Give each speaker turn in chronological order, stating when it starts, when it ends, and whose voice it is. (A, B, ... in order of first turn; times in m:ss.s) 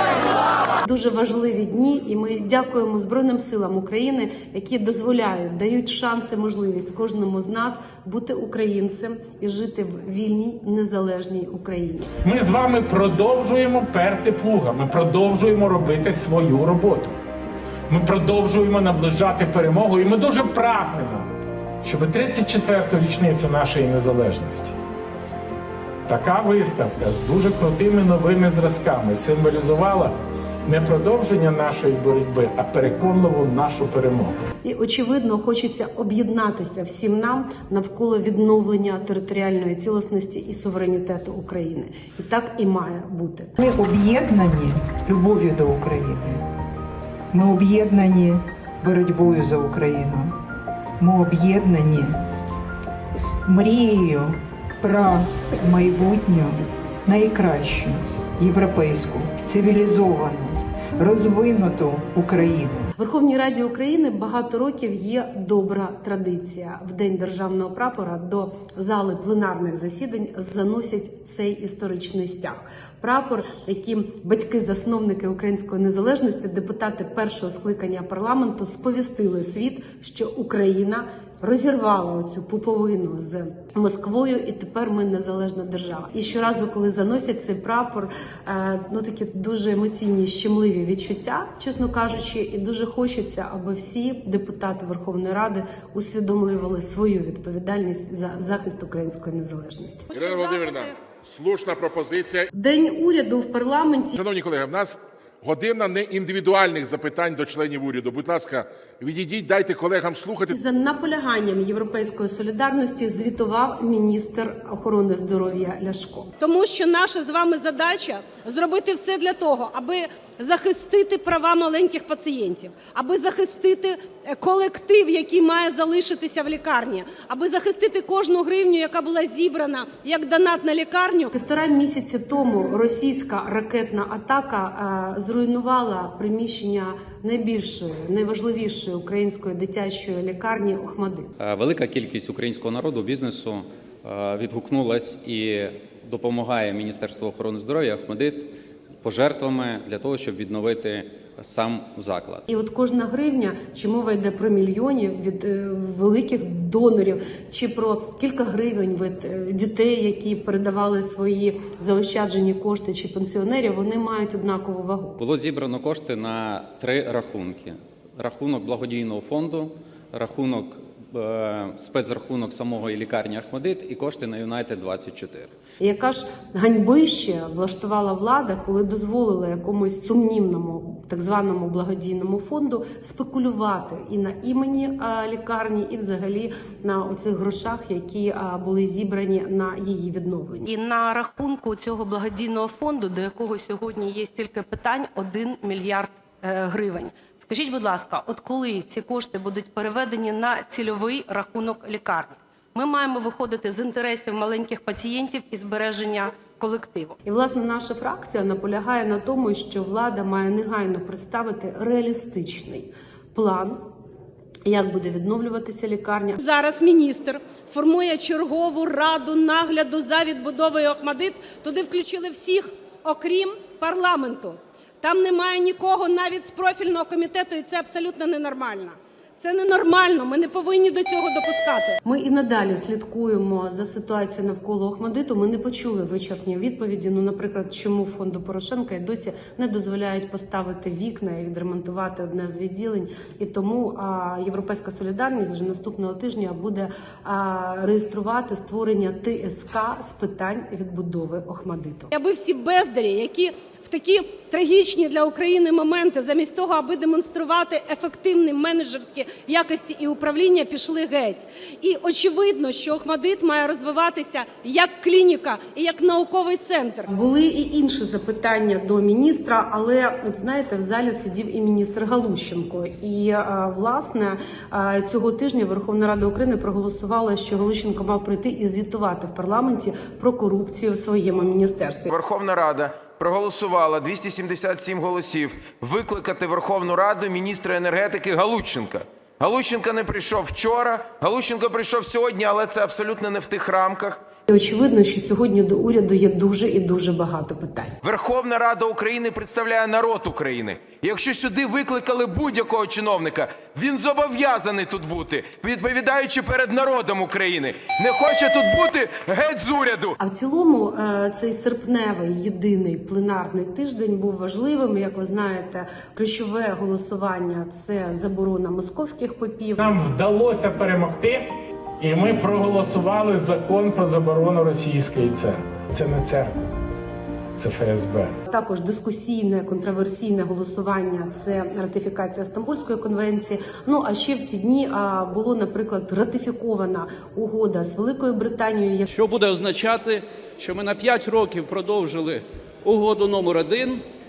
0:00.8-0:12.1 A
0:12.2-0:17.2 B
0:17.9-0:21.3 B
0:21.8-0:24.7 B
0:26.1-0:30.1 B
0:30.6-0:34.3 B
0:34.6-0:43.5 A
0:43.6-0:46.4 C
0:47.3-0:50.3 C
0:51.0-0:52.2 C
0:53.4-1:02.9 C
1:03.0-1:40.2 A
1:40.1-1:42.5 D
1:40.1-1:40.9 E
1:42.5-1:44.2 A
1:44.2-1:50.5 D
1:50.5-1:56.3 A
1:56.4-2:11.3 E
2:11.3-2:21.3 A
2:21.4-2:28.5 F
2:29.0-2:32.4 F
2:32.5-2:45.2 A
2:45.2-2:55.5 F
2:55.8-3:10.7 A
3:10.7-3:15.0 E
3:15.5-3:18.3 E
3:17.3-3:18.5 G
3:18.9-3:19.3 E
3:19.5-3:21.8 G
3:23.3-3:24.3 G
3:24.4-3:27.1 E
3:27.2-3:33.8 A
3:34.6-3:36.4 A
3:36.4-3:52.0 E
3:52.0-4:12.1 A
4:12.1-4:27.1 E
4:27.1-4:42.1 A
4:42.1-4:54.2 H
4:54.5-4:58.0 A
4:58.0-5:10.2 H
5:10.2-5:19.8 A
5:19.8-5:21.4 B
5:22.0-5:26.7 B
5:27.6-5:28.3 B
5:28.5-5:39.1 A
5:39.1-5:44.0 I